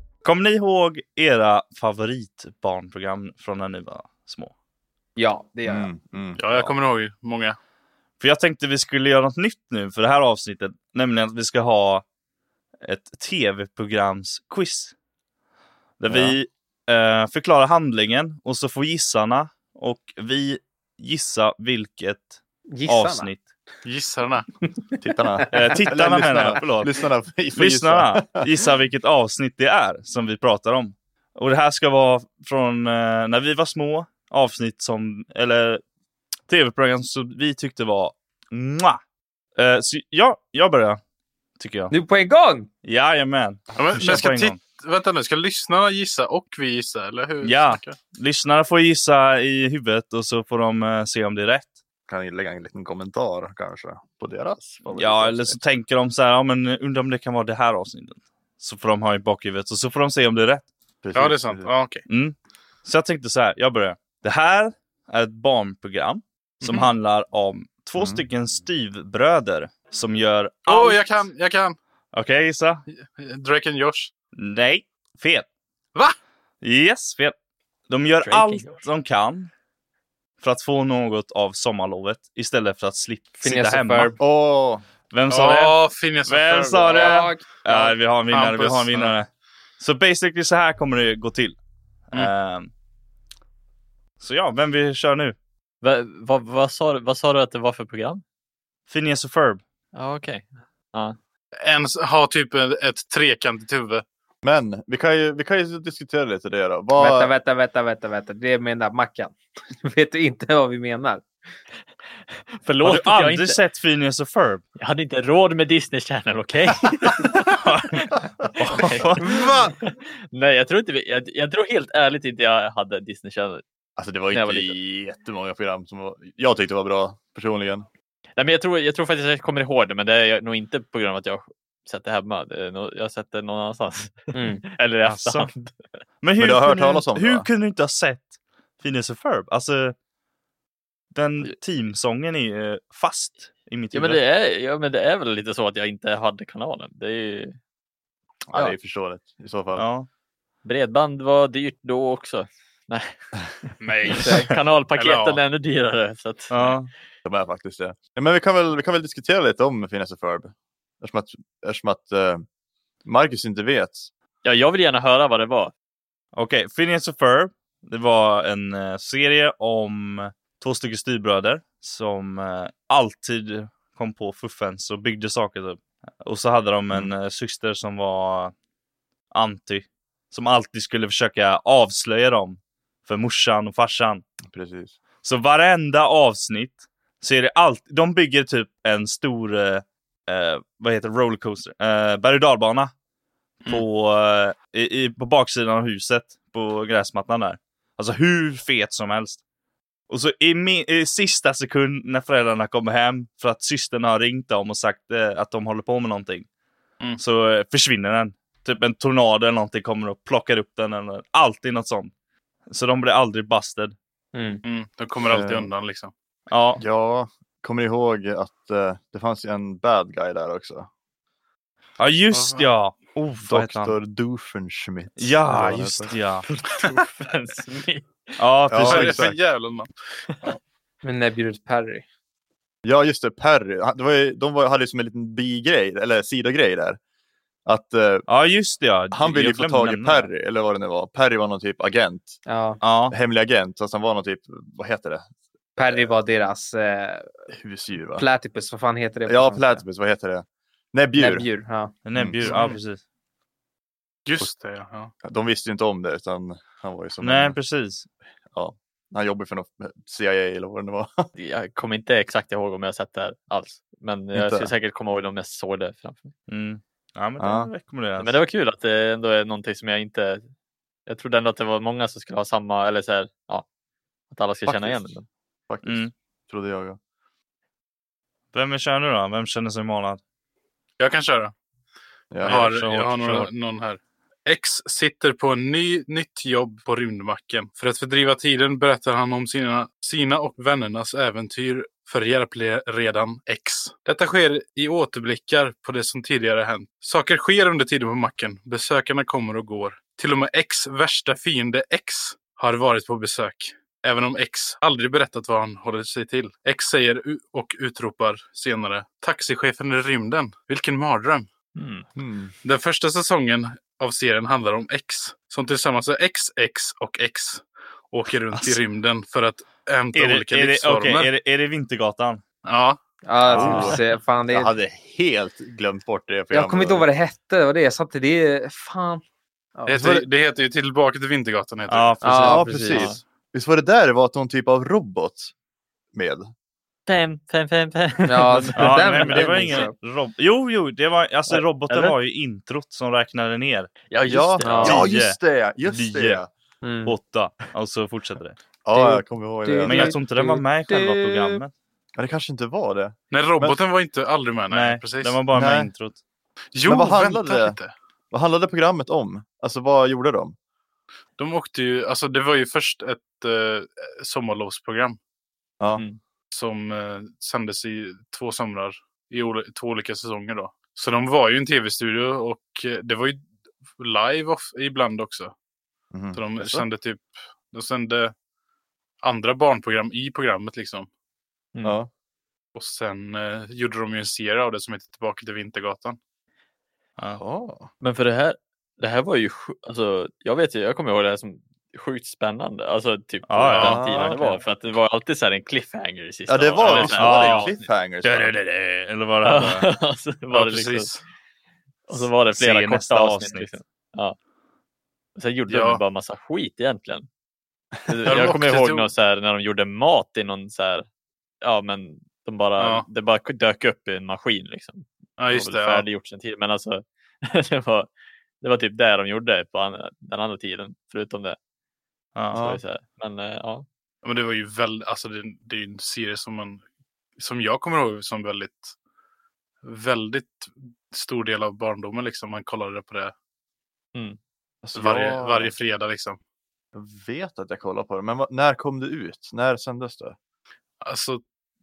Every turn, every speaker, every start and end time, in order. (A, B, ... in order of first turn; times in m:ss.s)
0:00.2-0:04.5 A
0:05.2-0:05.9 B
0:05.6-0:06.7 C
0:06.4-0:07.6 D
0:08.2-0:12.0 A
0:12.8-0:14.9 A
0:16.0-0:23.4 A
0:16.1-0:16.4 C
0:22.7-0:23.3 B
0:23.8-0:24.5 D
0:25.0-0:28.6 C
0:25.5-0:26.9 A
0:27.5-0:35.8 A
0:36.5-0:39.0 A
0:39.6-0:41.0 A
0:41.6-0:41.9 A
0:41.9-0:42.7 B
0:42.8-0:44.6 A
0:43.8-0:48.0 D
0:47.4-0:51.7 A
0:52.1-0:55.6 C
0:54.9-1:00.7 A
1:01.0-1:01.7 C
1:01.1-1:02.0 D
1:02.1-1:11.0 A
1:06.6-1:06.9 D
1:08.0-1:08.2 C
1:10.6-1:11.8 D
1:12.1-1:12.8 A
1:12.9-1:14.1 D
1:14.4-1:15.5 A
1:16.6-1:17.3 A
1:17.9-1:19.5 A
1:18.2-1:18.8 E
1:20.4-1:24.2 A
1:23.4-1:24.2 B
1:24.2-1:24.8 C
1:25.1-1:29.3 A
1:25.3-1:27.2 D
1:26.8-1:27.9 B
1:28.3-1:29.1 D
1:29.8-1:31.6 A
1:32.1-1:32.7 A
1:34.2-1:35.4 A
1:35.8-1:38.2 E
1:38.9-1:39.6 A
1:39.9-1:41.2 E
1:41.6-1:44.0 D
1:44.4-1:47.3 C
1:47.0-1:51.2 B
1:52.5-1:53.6 E
1:52.8-1:54.6 A
1:54.8-1:58.1 E
1:57.6-1:59.5 A
1:58.7-2:03.6 E
1:59.2-1:59.6 C
2:04.0-2:07.9 C
2:04.3-2:04.7 E
2:08.4-2:15.8 E
2:14.3-2:14.6 B
2:15.0-2:15.5 A
2:16.2-2:19.9 A
2:16.4-2:17.5 C
2:21.1-2:24.2 A
2:23.9-2:27.6 E
2:28.5-2:29.8 C
2:29.7-2:30.1 A
2:30.6-2:36.8 E
2:33.8-2:35.4 D
2:34.2-2:34.5 B
2:36.5-2:36.9 A
2:37.2-2:42.4 C
2:43.0-2:44.1 C
2:44.4-2:45.7 E
2:46.3-2:58.5 A
2:59.3-3:04.2 A
3:04.4-3:05.0 C
3:05.2-3:12.9 A
3:13.7-3:19.4 A
3:20.1-3:26.5 A
3:27.2-3:32.1 A
3:32.7-3:33.9 A
3:34.3-3:34.6 B
3:34.6-3:36.1 D
3:35.3-3:35.7 C
3:36.5-3:36.8 A
3:36.8-3:40.9 C
3:42.0-3:43.9 A
3:42.3-3:42.7 D
3:43.5-3:46.1 C
3:45.2-3:46.5 A
3:46.5-3:48.4 E
3:48.4-3:49.2 A
3:48.7-3:49.4 C
3:48.8-3:49.9 D
3:50.3-3:50.5 E
3:51.0-3:52.0 B
3:52.8-3:57.0 C
3:57.6-3:58.2 C
3:58.3-4:00.3 A
3:59.1-4:02.4 C
4:02.4-4:02.8 B
4:02.8-4:03.2 A
4:03.1-4:05.3 C
4:05.8-4:07.3 B
4:07.5-4:08.2 C
4:08.2-4:09.8 B
4:09.2-4:11.5 C
4:11.2-4:11.9 B
4:12.0-4:13.0 A
4:12.1-4:12.5 C
4:12.4-4:12.8 D
4:14.2-4:15.1 D
4:15.2-4:17.6 C
4:17.2-4:18.1 A
4:18.5-4:21.3 C
4:21.3-4:26.3 E
4:24.3-4:24.7 C
4:26.5-4:28.4 A
4:27.4-4:27.7 C
4:28.2-4:30.5 E
4:31.1-4:33.6 E
4:34.3-4:35.2 E
4:34.6-4:35.2 C
4:35.7-4:37.0 C
4:35.8-4:36.1 A
4:38.5-4:40.2 A
4:41.0-4:41.5 D
4:42.3-4:42.7 C
4:42.4-4:43.5 A
4:42.4-5:11.5 D
5:11.7-5:12.0 E
5:12.2-5:12.5 C
5:12.6-5:21.3 D
5:18.5-5:18.8 A
5:20.1-5:22.4 A
5:22.6-5:23.0 D
5:23.2-5:24.7 B
5:23.5-5:24.0 C
5:23.5-5:23.9 A
5:24.5-5:27.0 C
5:26.5-5:29.2 B
5:29.9-5:32.4 D
5:29.9-5:30.2 C
5:31.9-5:32.7 A
5:32.2-5:33.1 B
5:32.3-5:35.5 C
5:32.9-5:33.2 E
5:36.1-5:36.5 C
5:37.0-5:39.8 E
5:38.2-5:39.9 B
5:38.6-5:43.9 A
5:41.5-5:42.2 E
5:44.1-5:45.1 E
5:44.2-5:46.5 C
5:44.6-5:45.1 B
5:44.8-5:46.4 A
5:46.8-5:47.2 B
5:47.0-5:48.6 A
5:48.8-5:50.2 C
5:48.9-5:51.6 B
5:49.8-5:51.7 A
5:52.2-5:53.8 C
5:53.3-5:55.4 D
5:54.7-5:56.2 A
5:55.5-5:55.9 C
5:56.7-5:57.9 D
5:56.8-5:57.8 C
5:58.3-6:00.5 C
6:01.4-6:05.2 D
6:06.5-6:15.5 D
6:16.1-6:16.8 C
6:16.3-6:18.3 D
6:19.2-6:21.1 D
6:21.8-6:22.1 C
6:22.7-6:26.2 D
6:27.3-6:27.9 C
6:28.0-6:37.7 E
6:33.5-6:34.3 A
6:33.7-6:34.0 D
6:33.8-6:34.6 C
6:36.5-6:38.5 C
6:36.8-6:37.1 D
6:36.9-6:37.7 A
6:38.2-6:39.9 A
6:39.4-6:41.1 E
6:40.5-6:41.2 D
6:42.1-6:44.4 E
6:42.5-6:43.7 A
6:45.4-6:47.3 E
6:45.7-6:46.0 D
6:48.0-6:51.0 E
6:48.2-6:49.1 D
6:51.6-6:58.1 E
6:52.8-6:53.0 D
6:55.4-6:56.1 D
6:58.6-7:01.6 E
7:02.5-7:02.8 C
7:02.5-7:03.8 E
7:04.2-7:06.8 D
7:07.4-7:08.9 D
7:09.8-7:13.3 D
7:14.1-7:14.4 E
7:14.8-7:15.7 C
7:14.9-7:16.4 D
7:16.9-7:20.4 C
7:21.0-7:21.4 D